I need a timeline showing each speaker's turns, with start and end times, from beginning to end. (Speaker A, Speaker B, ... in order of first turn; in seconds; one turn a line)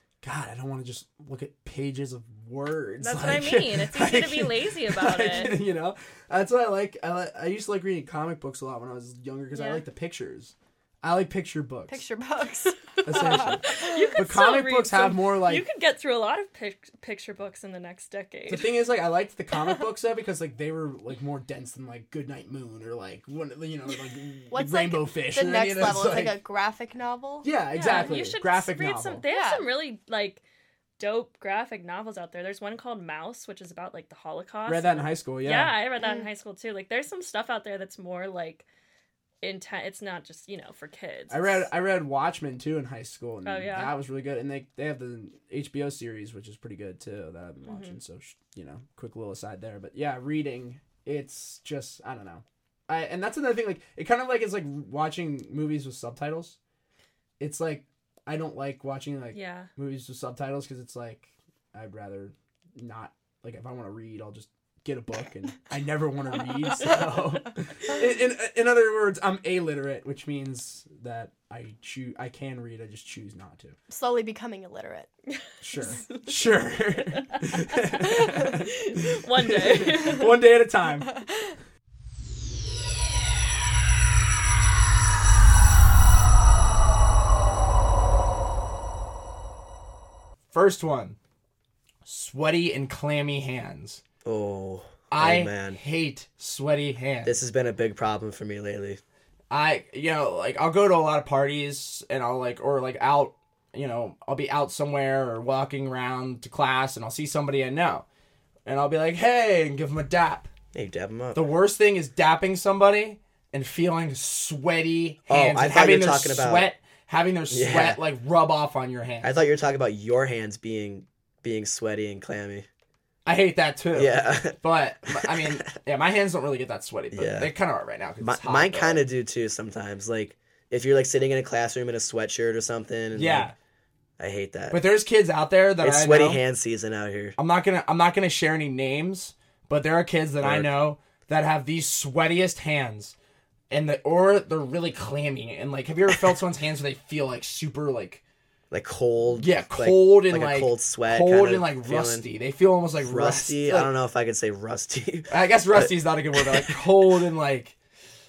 Speaker A: 0.2-12.0
Speaker B: 3.0-5.6
Speaker B: 9.5-9.9
Speaker C: 11.9-14.1
Speaker A: 13.0-15.6
Speaker B: 13.1-18.9
Speaker A: 18.5-26.4
Speaker C: 24.5-28.2
Speaker A: 27.4-29.2
Speaker B: 27.7-30.4
Speaker C: 29.3-29.7
Speaker B: 31.0-38.6
Speaker A: 34.6-35.7
Speaker C: 36.0-36.3
Speaker B: 39.4-41.7
Speaker A: 41.3-56.5
Speaker B: 43.4-44.0
Speaker B: 47.6-48.0
Speaker A: 57.4-73.8
Speaker B: 59.3-59.7
Speaker C: 73.9-75.1
Speaker B: 75.3-76.6
Speaker A: 75.6-78.7
Speaker B: 77.9-80.4
Speaker A: 79.3-81.2
Speaker B: 81.1-81.5
Speaker A: 90.5-91.2
Speaker A: 92.0-94.0
Speaker D: 94.2-95.8
Speaker A: 95.1-97.3
Speaker D: 97.2-99.0
Speaker A: 99.5-108.0
Speaker A: 108.6-110.5
Speaker D: 110.7-111.5
Speaker A: 111.3-119.3
Speaker D: 115.3-116.7
Speaker D: 117.5-118.0
Speaker D: 119.2-122.7
Speaker A: 123.2-129.0
Speaker D: 123.9-125.4
Speaker D: 127.1-127.5
Speaker D: 128.2-133.5
Speaker A: 133.1-133.6
Speaker D: 134.2-134.8
Speaker A: 134.7-136.4
Speaker D: 135.8-137.3
Speaker A: 137.4-143.1
Speaker D: 140.4-140.7
Speaker A: 143.7-148.2
Speaker D: 148.7-152.2
Speaker A: 149.4-153.9
Speaker D: 153.0-156.8
Speaker A: 155.3-157.8